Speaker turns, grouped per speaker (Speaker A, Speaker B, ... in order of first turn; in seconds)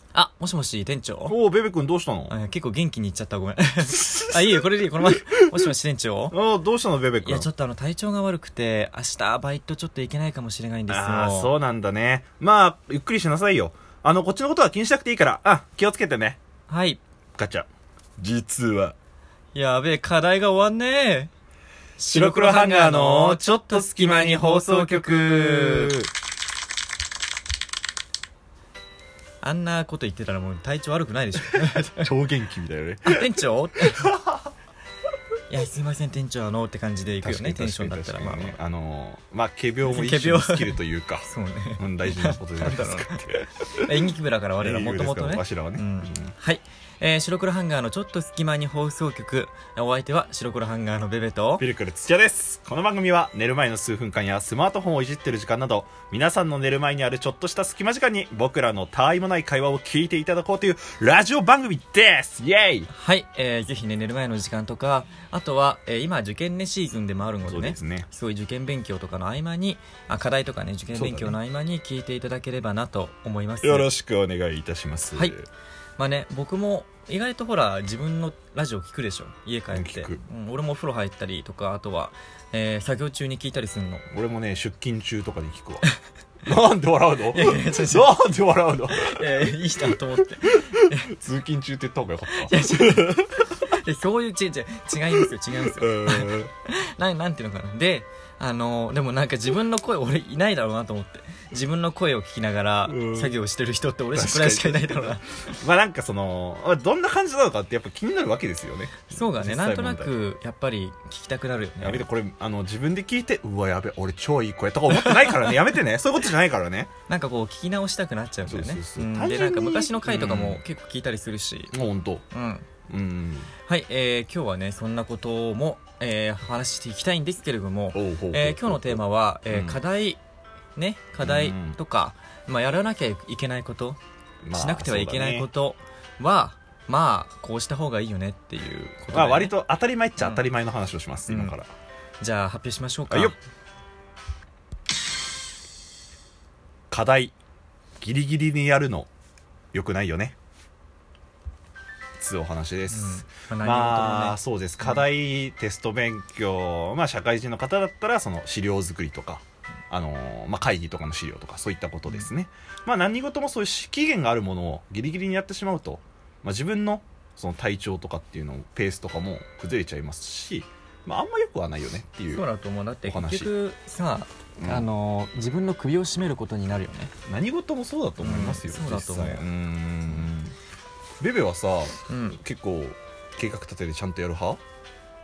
Speaker A: 0.1-1.4, 2.3-6.3, 7.2-11.5, 16.7-17.0, 19.6-21.3, 22.0-26.0, 29.4-32.1, 33.1-34.1, 35.5-38.6, 39.9-43.2, 43.7-51.6, 62.9-73.9, 76.0-84.1, 87.3-88.2, 88.9-91.1, 92.3-105.6, 109.1-112.1, 115.1-115.5, 117.1-121.7, 122.3-122.7, 123.7-130.2, 130.8-134.0, 134.5-139.5, 140.2-140.5, 141.3-141.6, 142.2-143.4, 152.9-154.4, 172.3-177.1, 178.2-179.4, 182.1-182.4
Speaker B: 1.3-2.3, 3.9-5.7, 6.3-7.5, 10.9-16.4, 17.4-18.9, 22.1-26.1, 31.4-33.3, 34.0-34.4, 37.2-44.0, 44.6-46.3, 51.6-62.9, 67.5-68.1, 70.9-71.4, 73.6-75.5, 79.7-80.2, 84.1-85.9, 86.5-93.5, 95.2-96.5, 102.9-103.3, 104.2-110.1, 111.8-116.9, 118.5-120.6, 121.7-122.2, 122.9-123.5, 127.9-129.8, 131.2-131.8, 134.4-135.5, 139.1-141.7, 143.1-143.3, 146.9-147.3, 148.0-149.1, 149.7-150.4, 152.2-172.4, 173.1-173.5, 174.6-174.9, 177.3-180.5, 181.2-184.6